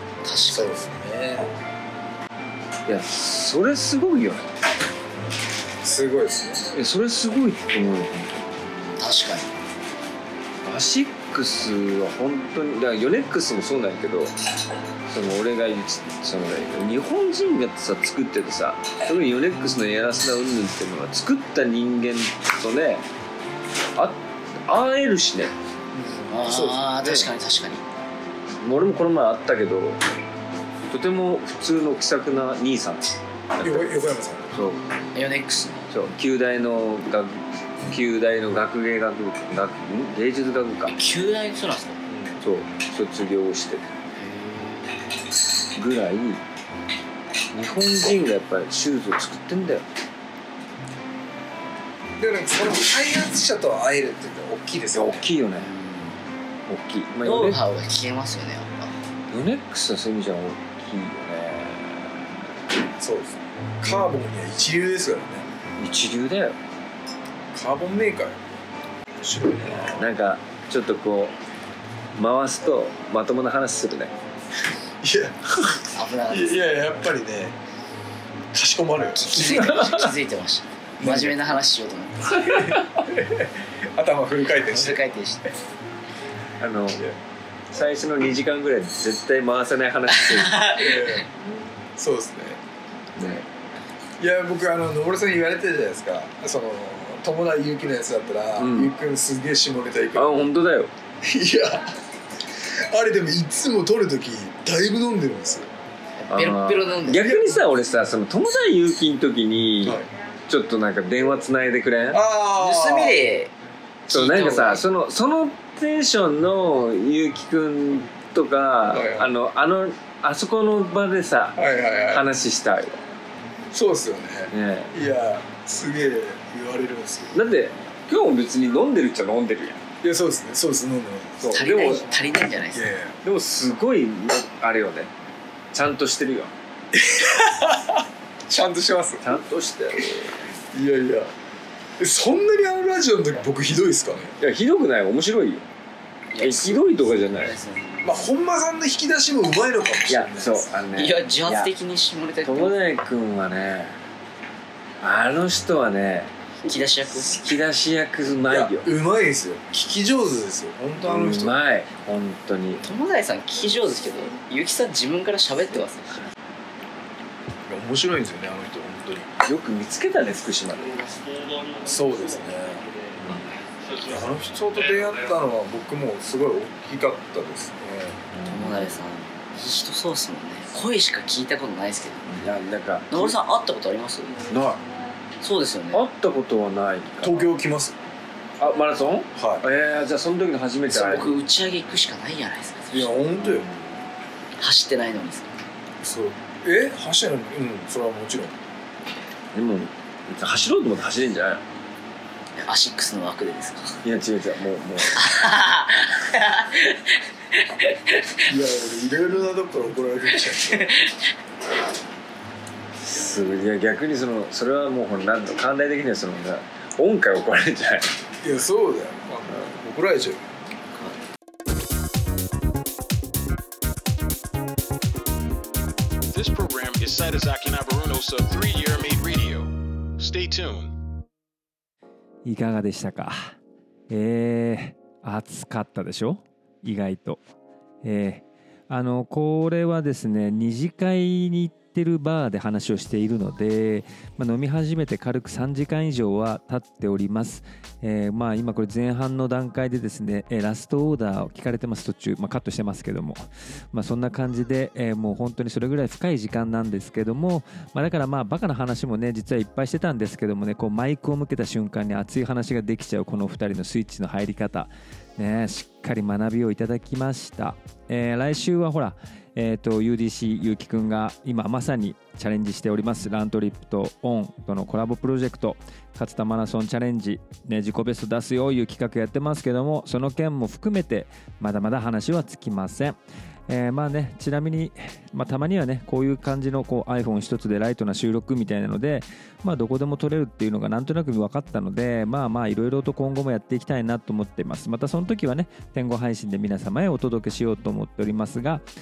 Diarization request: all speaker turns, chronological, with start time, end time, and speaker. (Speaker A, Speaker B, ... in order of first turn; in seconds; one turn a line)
Speaker A: 0.2-0.7
Speaker B: 0.5-1.5
Speaker C: 2.9-4.5
Speaker B: 5.8-6.7
Speaker C: 6.7-8.4
Speaker A: 8.8-9.5
Speaker C: 10.6-14.3
Speaker C: 15.1-23.0
Speaker C: 23.9-25.5
Speaker B: 25.9-26.8
Speaker A: 26.3-27.8
Speaker C: 26.5-27.3
Speaker C: 28.6-30.0
Speaker C: 30.9-34.0
Speaker B: 33.6-34.4
Speaker C: 34.5-34.8
Speaker A: 35.1-35.9
Speaker C: 35.9-41.0
Speaker A: 40.9-42.0
Speaker B: 42.1-42.4
Speaker C: 42.4-43.9
Speaker A: 44.1-45.0
Speaker C: 45.8-46.4
Speaker C: 47.5-49.9
Speaker B: 52.2-55.3
Speaker C: 54.9-55.7
Speaker A: 55.5-56.2
Speaker C: 56.7-57.6
Speaker A: 57.2-59.0
Speaker C: 59.3-62.1
Speaker B: 63.0-65.5
Speaker C: 65.8-66.5
Speaker B: 67.5-68.4
Speaker B: 69.2-70.1
Speaker C: 69.9-71.3
Speaker C: 72.1-74.1
Speaker B: 75.0-75.5
Speaker A: 75.9-76.6
Speaker B: 76.3-77.5
Speaker B: 78.5-79.6
Speaker A: 79.2-82.4
Speaker C: 79.3-80.1
Speaker B: 81.0-81.4
Speaker B: 82.3-85.0
Speaker C: 82.5-82.9
Speaker A: 84.7-85.4
Speaker C: 86.6-87.0
Speaker C: 87.7-90.7
Speaker A: 90.1-91.2
Speaker B: 90.7-91.3
Speaker B: 92.0-92.6
Speaker C: 93.2-93.5
Speaker B: 94.2-100.5
Speaker C: 98.6-98.9
Speaker C: 100.1-100.9
Speaker B: 101.2-101.9
Speaker B: 102.5-105.7
Speaker A: 106.2-107.3
Speaker C: 106.3-112.2
Speaker B: 107.1-107.6
Speaker B: 112.1-113.2
Speaker A: 112.6-113.5
Speaker A: 114.1-114.8
Speaker C: 114.1-123.0
Speaker B: 118.9-119.3
Speaker B: 121.5-122.2
Speaker B: 123.7-127.4
Speaker C: 124.5-124.9
Speaker C: 127.3-129.8
Speaker B: 130.0-131.5
Speaker C: 131.4-132.1
Speaker A: 131.5-132.8
Speaker B: 132.7-133.2
Speaker C: 133.2-135.1
Speaker C: 135.7-136.5
Speaker B: 136.9-139.2
Speaker C: 139.2-140.5
Speaker B: 140.7-141.3
Speaker B: 142.0-144.3
Speaker C: 144.4-145.6
Speaker A: 146.3-148.0
Speaker C: 146.4-147.5
Speaker B: 148.0-150.8
Speaker C: 150.1-151.7
Speaker A: 150.9-152.8
Speaker C: 152.4-154.0
Speaker C: 155.0-156.3
Speaker A: 156.6-157.4
Speaker C: 157.1-158.9
Speaker B: 158.5-161.6
Speaker C: 161.0-162.8
Speaker A: 162.8-166.2
Speaker B: 167.7-169.3
Speaker C: 169.4-171.2
Speaker B: 171.8-172.9
Speaker C: 173.2-173.5
Speaker B: 174.0-178.2
Speaker C: 178.3-179.0
Speaker A: 178.5-182.3
Speaker C: 182.2-183.3
Speaker A: 183.1-184.4
Speaker C: 184.5-184.8
Speaker A: 185.4-186.0
Speaker C: 185.9-187.5
Speaker B: 187.2-187.9
Speaker C: 188.6-191.3
Speaker B: 189.3-189.6
Speaker A: 190.9-193.2
Speaker B: 192.9-193.7
Speaker C: 193.4-193.9
Speaker A: 194.6-195.5
Speaker B: 196.0-198.6
Speaker C: 199.5-201.6
Speaker A: 202.6-204.0
Speaker C: 204.0-205.3
Speaker A: 205.1-208.4
Speaker B: 208.4-211.1
Speaker A: 210.6-211.2
Speaker C: 213.0-218.1
Speaker B: 218.4-220.4
Speaker D: 226.3-230.9
Speaker E: 232.4-233.5
Speaker E: 234.1-237.4
Speaker E: 238.0-298.8